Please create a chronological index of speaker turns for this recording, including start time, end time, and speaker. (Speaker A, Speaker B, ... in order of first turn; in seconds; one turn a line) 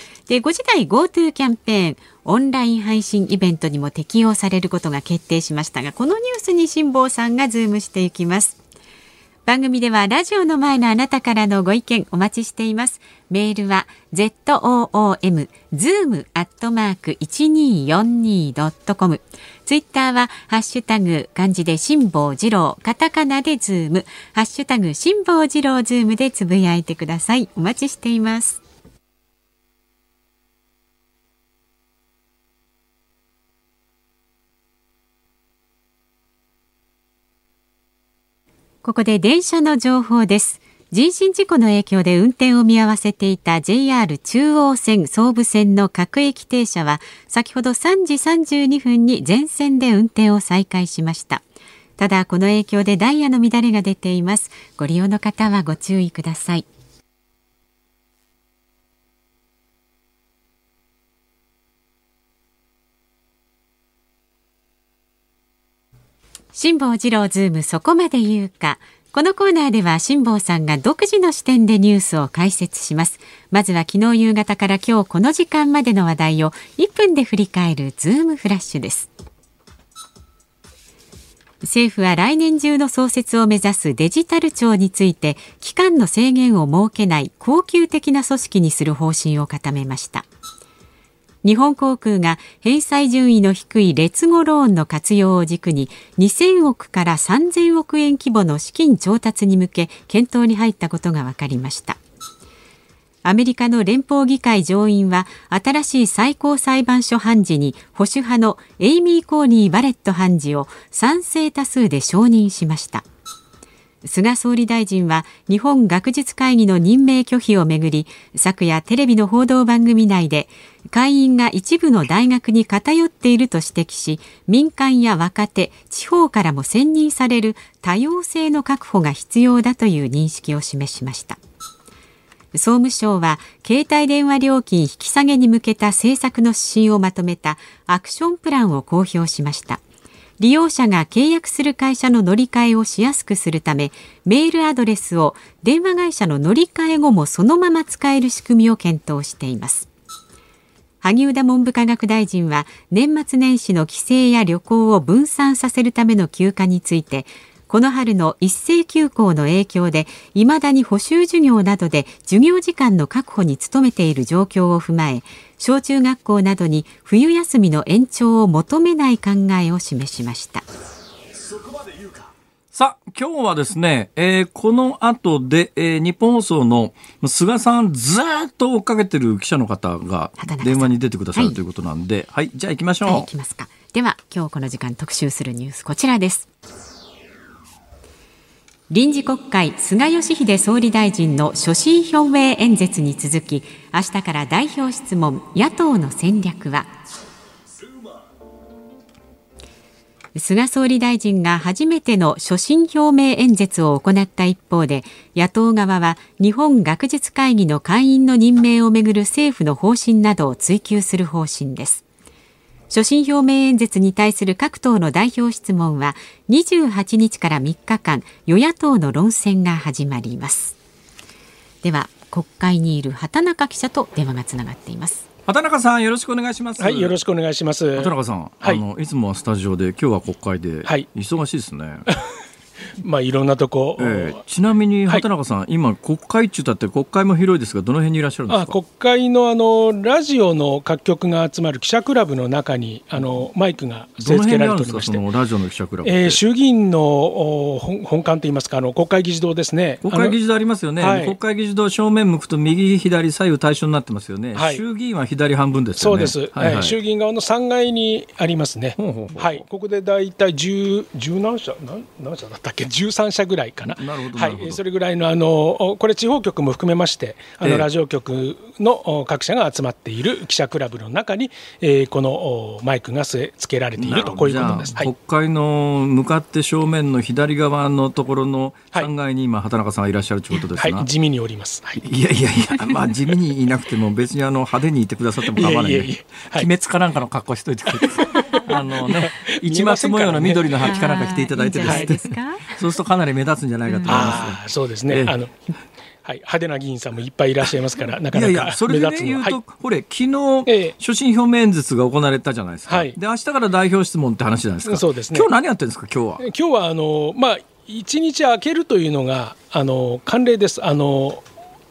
Speaker A: 0.3-8.6
Speaker A: 9.4-28.6
Speaker A: 38.8-51.4
Speaker A: 52.0-56.6
Speaker A: 66.5-79.1
Speaker A: 81.6-90.2
Speaker A: 91.4-102.0
Speaker A: 103.2-113.0
Speaker A: 114.0-131.4
Speaker A: 132.5-139.8
Speaker A: 140.4-149.9
Speaker A: 151.0-170.6
Speaker B: 172.7-183.3
Speaker A: 180.4-181.6
Speaker A: 183.0-186.5
Speaker A: 188.9-196.9
Speaker A: 200.3-212.0
Speaker A: 212.9-220.8
Speaker A: 221.8-225.2
Speaker B: 225.5-227.2
Speaker C: 226.8-228.8
Speaker B: 227.9-232.1
Speaker C: 233.0-234.4
Speaker B: 234.0-238.8
Speaker C: 238.5-245.2
Speaker B: 244.2-246.4
Speaker C: 246.0-250.3
Speaker B: 250.0-256.9
Speaker C: 251.0-251.3
Speaker C: 254.5-254.8
Speaker C: 256.0-275.1
Speaker B: 259.0-259.6
Speaker B: 263.9-264.8
Speaker B: 267.6-267.9
Speaker B: 274.0-281.1
Speaker C: 280.7-282.1
Speaker B: 282.0-295.3
Speaker C: 285.5-286.7
Speaker C: 287.9-291.1
Speaker A: 290.8-292.8
Speaker C: 291.8-292.1
Speaker A: 293.9-294.3
Speaker C: 294.1-295.5
Speaker C: 296.2-299.6
Speaker B: 298.3-306.4
Speaker C: 300.6-300.9
Speaker C: 302.9-303.1
Speaker C: 304.8-305.5
Speaker C: 306.4-311.4